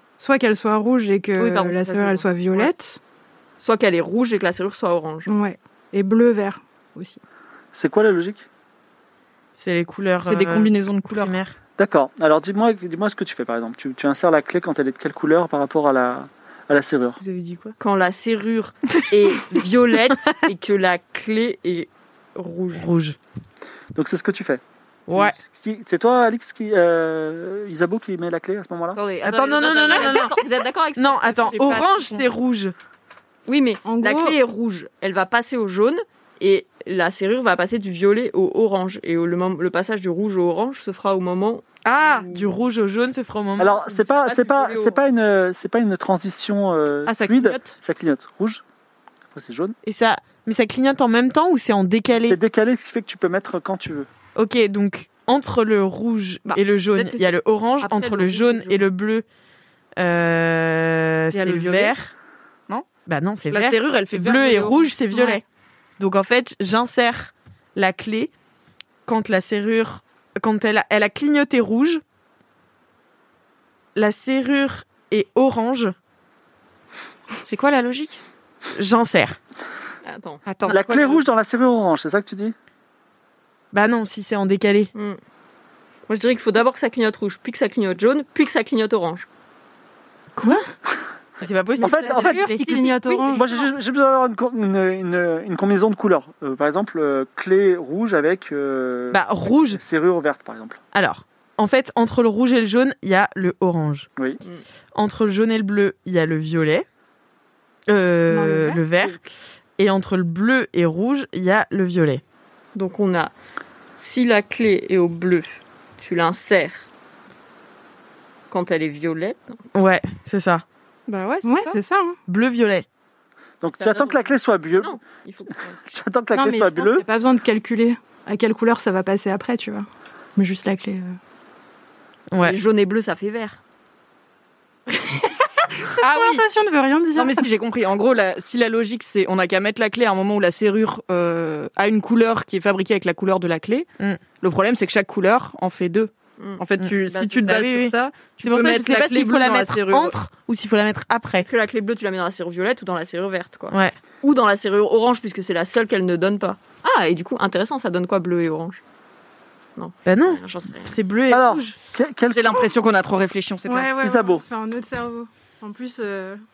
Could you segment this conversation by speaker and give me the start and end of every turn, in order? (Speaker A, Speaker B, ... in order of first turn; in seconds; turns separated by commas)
Speaker A: 0.2-3.0, Speaker B: 1.4-2.7, Speaker B: 3.6-5.3, Speaker A: 5.3-7.2, Speaker C: 7.7-8.5, Speaker D: 9.6-11.5, Speaker E: 10.2-11.4, Speaker C: 11.8-17.2, Speaker D: 17.2-17.8, Speaker B: 17.8-22.9, Speaker D: 22.7-23.2, Speaker C: 23.9-24.6, Speaker D: 25.1-25.4, Speaker C: 25.1-29.0, Speaker E: 29.0-30.4, Speaker D: 29.2-32.7, Speaker B: 29.5-31.6, Speaker E: 31.3-32.3, Speaker B: 33.5-42.5, Speaker A: 33.8-34.4, Speaker E: 41.9-42.3, Speaker D: 42.3-43.8, Speaker C: 43.6-48.6, Speaker B: 43.7-45.0, Speaker E: 47.1-47.8, Speaker C: 49.3-49.8, Speaker D: 49.8-52.4, Speaker C: 52.3-54.1, Speaker D: 54.4-59.2, Speaker B: 56.5-58.8, Speaker D: 60.0-62.1, Speaker E: 61.3-62.0, Speaker D: 63.1-65.4, Speaker E: 63.4-65.4, Speaker D: 66.0-68.3, Speaker D: 69.1-72.0, Speaker D: 74.0-76.0, Speaker E: 77.4-78.2, Speaker D: 78.7-79.4, Speaker B: 80.0-80.4, Speaker E: 80.5-81.2, Speaker C: 80.7-82.5, Speaker D: 83.7-84.9, Speaker B: 86.1-89.3, Speaker D: 90.4-90.6, Speaker D: 91.4-93.4, Speaker C: 91.8-92.5, Speaker A: 91.8-93.5, Speaker C: 93.3-100.8, Speaker D: 99.1-99.8, Speaker D: 100.9-104.1, Speaker D: 105.0-106.8, Speaker D: 107.9-109.2, Speaker A: 108.3-108.8, Speaker D: 109.8-112.2, Speaker B: 112.8-113.3, Speaker B: 114.0-116.9, Speaker B: 118.5-119.6, Speaker D: 119.7-120.6, Speaker E: 121.1-121.8, Speaker A: 121.5-122.2, Speaker D: 122.3-122.8, Speaker C: 123.6-125.0, Speaker B: 123.8-126.0, Speaker C: 125.9-127.0, Speaker A: 126.3-131.2, Speaker D: 132.3-132.6, Speaker B: 132.3-133.6, Speaker A: 135.0-135.3, Speaker A: 136.0-137.5, Speaker E: 136.0-136.5, Speaker E: 137.2-143.9, Speaker E: 144.4-150.2, Speaker B: 146.4-147.6, Speaker D: 146.8-151.5, Speaker B: 151.4-158.8, Speaker D: 153.7-154.0, Speaker B: 159.8-160.9, Speaker D: 160.1-161.8, Speaker C: 161.3-162.6, Speaker E: 162.3-163.9, Speaker A: 163.7-166.4, Speaker C: 164.0-164.4